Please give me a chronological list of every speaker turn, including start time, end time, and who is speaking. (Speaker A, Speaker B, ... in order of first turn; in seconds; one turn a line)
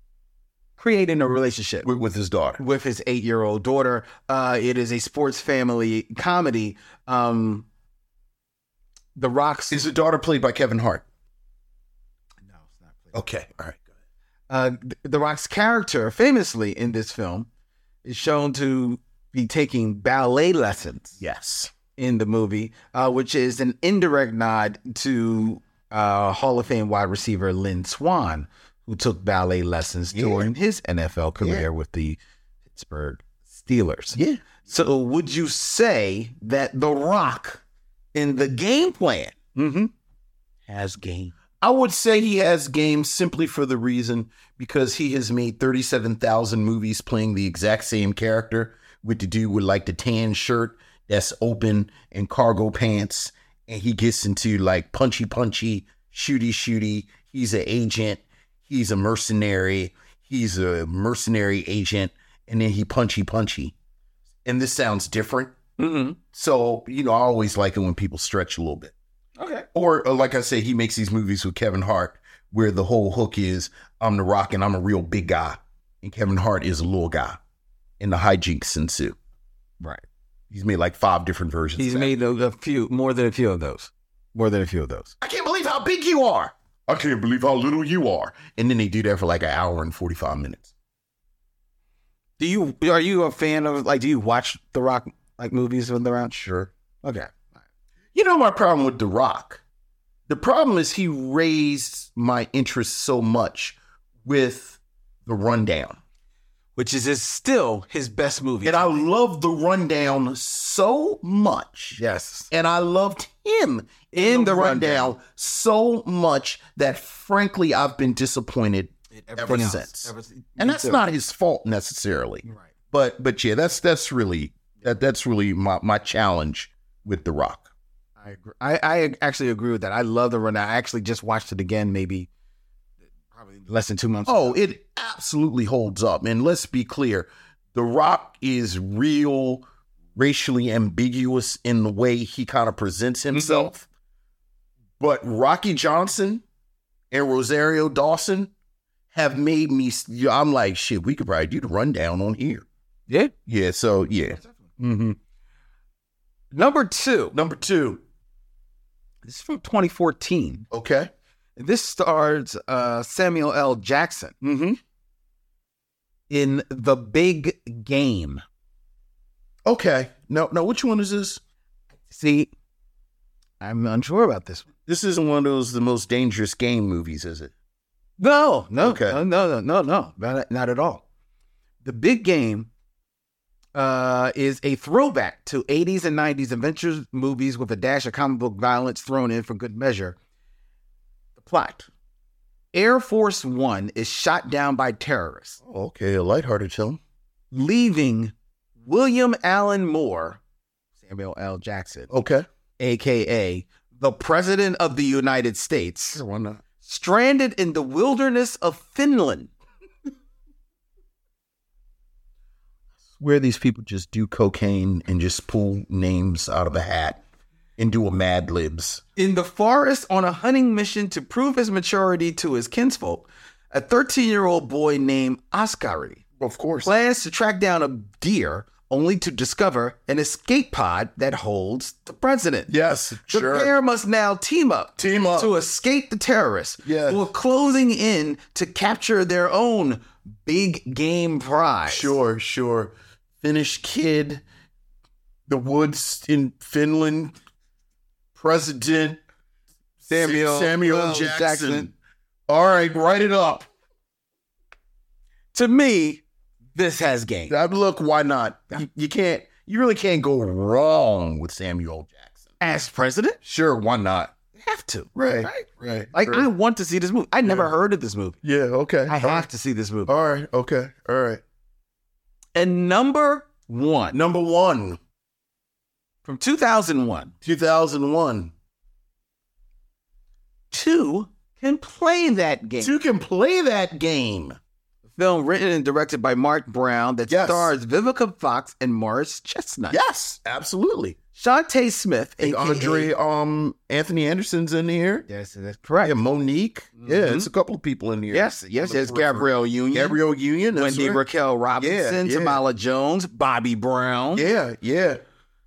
Speaker A: 0.8-1.9
Speaker B: 1.8-2.6
Speaker A: 2.6-7.7
Speaker A: 9.2-9.8
Speaker B: 9.7-11.0
Speaker A: 12.5-13.2
Speaker B: 13.1-13.8
Speaker A: 14.5-17.5
Speaker A: 18.1-21.2
Speaker B: 21.2-21.7
Speaker A: 22.0-32.2
Speaker B: 30.1-30.5
Speaker B: 31.4-31.7
Speaker A: 32.8-37.6
Speaker B: 34.1-34.4
Speaker A: 38.1-39.4
Speaker B: 39.5-39.9
Speaker A: 40.7-41.3
Speaker B: 41.6-63.7
Speaker B: 64.5-65.6
Speaker A: 65.8-66.2
Speaker B: 66.3-68.9
Speaker A: 69.4-69.7
Speaker B: 69.7-77.4
Speaker B: 78.0-79.2
Speaker B: 80.5-82.1
Speaker A: 81.8-85.1
Speaker B: 85.2-90.7
Speaker A: 92.4-96.5
Speaker B: 96.4-96.7
Speaker A: 97.0-97.4
Speaker B: 98.1-99.6
Speaker B: 100.3-106.0
Speaker A: 106.8-109.0
Speaker B: 108.6-112.0
Speaker A: 112.0-112.5
Speaker B: 112.5-127.7
Speaker A: 114.1-115.2
Speaker A: 119.1-121.0
Speaker A: 122.5-122.7
Speaker A: 128.2-132.3
Speaker A: 133.3-134.6
Speaker B: 134.3-143.9
Speaker A: 143.3-143.7
Speaker B: 145.0-146.4
Speaker B: 147.1-148.5
Speaker B: 149.1-152.7
Speaker B: 153.5-155.2
Speaker A: 156.5-157.4
Speaker B: 157.3-158.0
Speaker A: 159.2-160.7
Speaker B: 160.7-161.1
Speaker A: 161.6-164.3
Speaker B: 164.4-164.8
Speaker A: 166.3-168.4
Speaker B: 169.7-171.4
Speaker A: 172.1-172.5
Speaker A: 173.6-174.7
Speaker B: 174.9-177.5
Speaker A: 178.2-181.0
Speaker B: 178.8-179.2
Speaker A: 181.8-182.7
Speaker A: 183.8-190.2
Speaker A: 191.4-191.9
Speaker A: 192.7-195.6
Speaker B: 195.6-197.0
Speaker A: 197.5-200.4
Speaker A: 201.0-202.1
Speaker B: 202.1-202.5
Speaker A: 202.8-206.2
Speaker B: 206.1-206.6
Speaker A: 206.8-209.5
Speaker B: 213.2-217.2
Speaker B: 217.8-219.0
Speaker A: 219.2-226.2
Speaker B: 226.4-226.9
Speaker A: 226.8-232.7
Speaker B: 232.7-233.7
Speaker A: 233.3-242.2
Speaker B: 235.0-235.5
Speaker B: 236.8-237.2
Speaker B: 241.9-244.4
Speaker B: 245.5-247.3
Speaker B: 248.3-249.2
Speaker A: 250.1-251.9
Speaker B: 250.1-251.9
Speaker B: 252.5-253.7
Speaker A: 255.5-256.2
Speaker A: 256.7-257.6
Speaker B: 257.5-262.5
Speaker A: 262.6-263.4
Speaker B: 263.4-264.3
Speaker A: 264.6-268.4
Speaker B: 265.1-266.5
Speaker B: 267.4-267.7
Speaker B: 268.4-269.5
Speaker A: 269.1-270.1
Speaker B: 270.1-271.4
Speaker A: 272.6-274.2
Speaker B: 274.1-275.0
Speaker A: 276.2-277.3
Speaker B: 277.4-278.5
Speaker A: 280.7-282.9
Speaker B: 282.8-284.6
Speaker A: 285.1-290.0
Speaker B: 287.3-287.7
Speaker B: 289.9-291.2
Speaker A: 291.4-293.1
Speaker B: 292.4-295.3
Speaker A: 295.3-296.1
Speaker B: 296.0-301.2
Speaker A: 297.0-297.5
Speaker A: 298.3-300.2
Speaker A: 300.7-304.4
Speaker B: 301.8-302.6
Speaker B: 304.3-305.2